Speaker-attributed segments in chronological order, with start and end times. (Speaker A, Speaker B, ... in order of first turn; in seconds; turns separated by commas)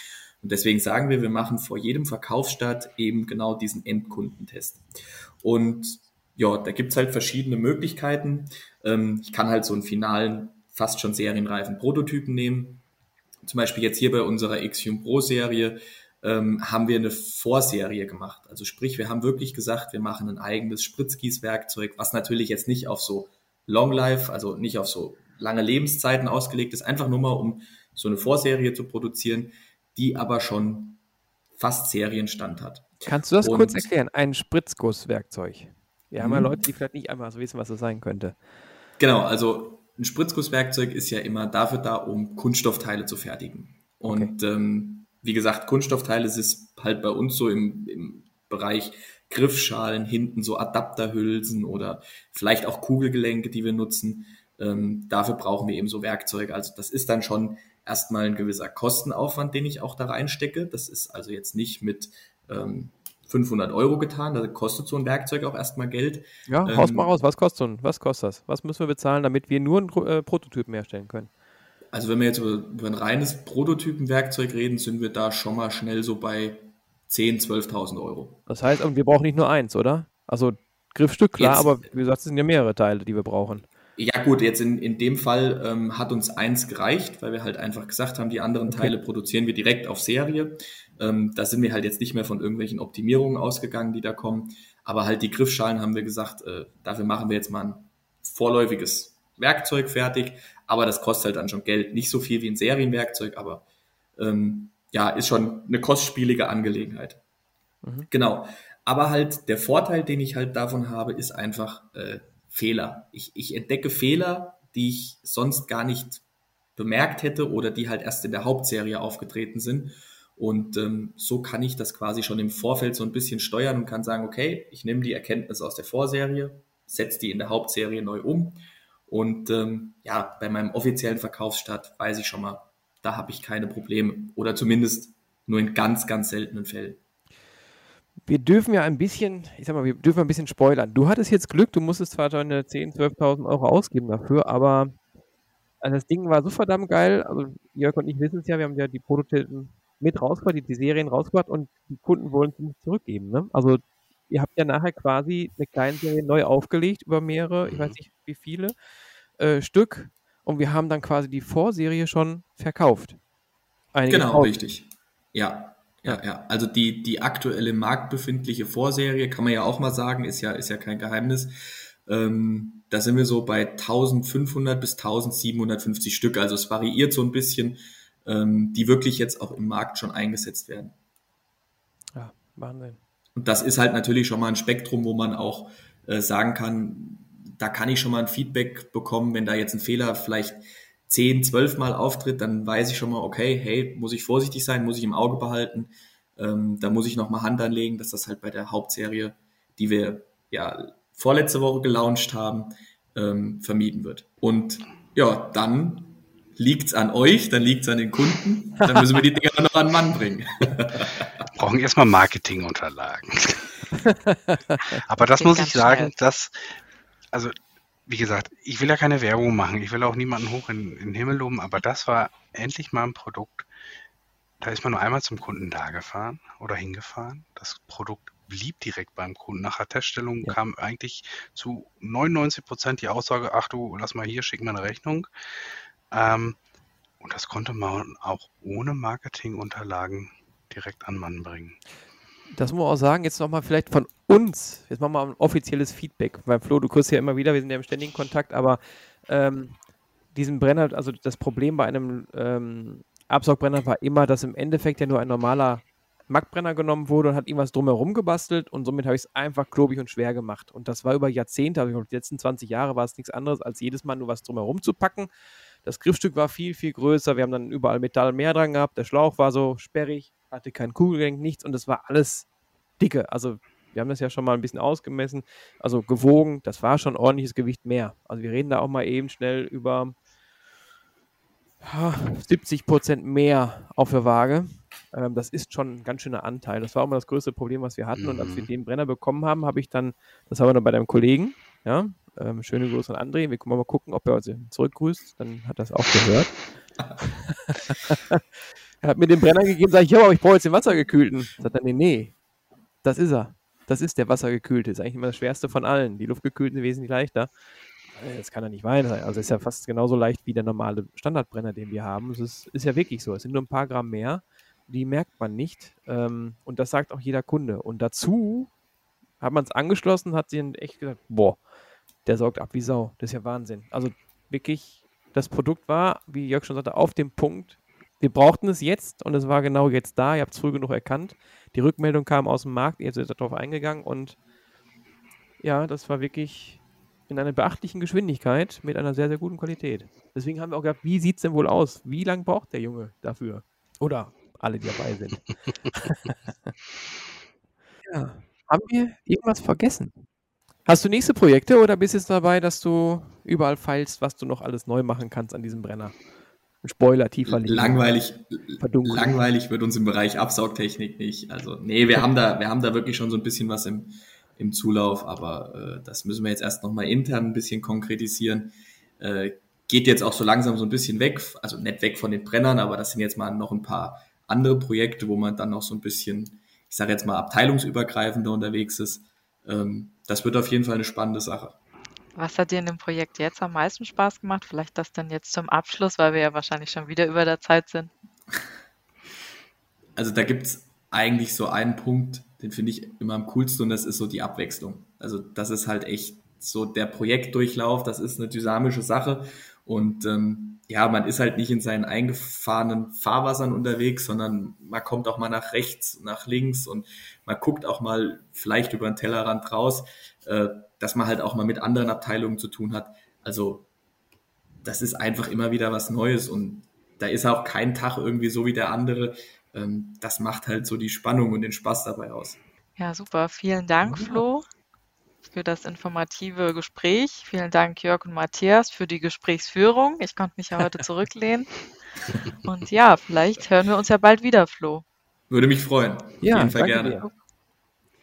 Speaker A: 0.4-4.8, Speaker A: 5.4-12.8, Speaker A: 13.4-31.0, Speaker A: 31.6-33.9, Speaker B: 33.0-38.4, Speaker A: 36.2-36.6, Speaker A: 39.0-67.1, Speaker B: 44.0-44.3, Speaker B: 66.5-71.3, Speaker A: 71.9-78.4, Speaker B: 78.5-83.7, Speaker A: 81.4-81.8, Speaker A: 84.0-103.6, Speaker B: 88.7-88.9, Speaker A: 104.2-107.2, Speaker A: 108.1-116.2, Speaker A: 116.8-137.0, Speaker B: 138.2-144.9, Speaker B: 145.8-158.7, Speaker C: 157.6-157.9, Speaker B: 159.4-163.2, Speaker B: 163.9-164.5, Speaker A: 164.1-171.5, Speaker A: 172.1-180.9, Speaker B: 182.2-183.0, Speaker A: 183.3-211.2, Speaker C: 211.6-213.8, Speaker B: 214.1-214.8, Speaker C: 215.1-216.8, Speaker D: 215.4-216.1, Speaker C: 218.1-223.7, Speaker C: 224.6-235.3, Speaker C: 236.1-236.6, Speaker C: 237.2-241.8, Speaker B: 242.5-249.8, Speaker B: 250.3-265.3, Speaker B: 265.8-272.5, Speaker B: 273.0-280.1, Speaker B: 281.8-296.5, Speaker C: 288.1-288.7, Speaker B: 297.2-298.4, Speaker B: 299.0-302.3, Speaker B: 303.0-307.5, Speaker B: 308.1-318.7, Speaker B: 319.4-321.6, Speaker B: 322.2-334.4, Speaker B: 335.6-345.4, Speaker B: 345.9-346.7, Speaker B: 348.1-350.2, Speaker B: 350.9-356.1, Speaker B: 356.8-358.1, Speaker A: 357.4-381.8, Speaker B: 358.8-359.4, Speaker D: 382.4-388.1, Speaker A: 390.1-413.9, Speaker A: 414.8-422.6, Speaker D: 423.0-424.6, Speaker B: 424.0-424.4, Speaker D: 425.4-431.7, Speaker D: 432.6-435.0, Speaker A: 435.5-437.2, Speaker B: 436.4-437.3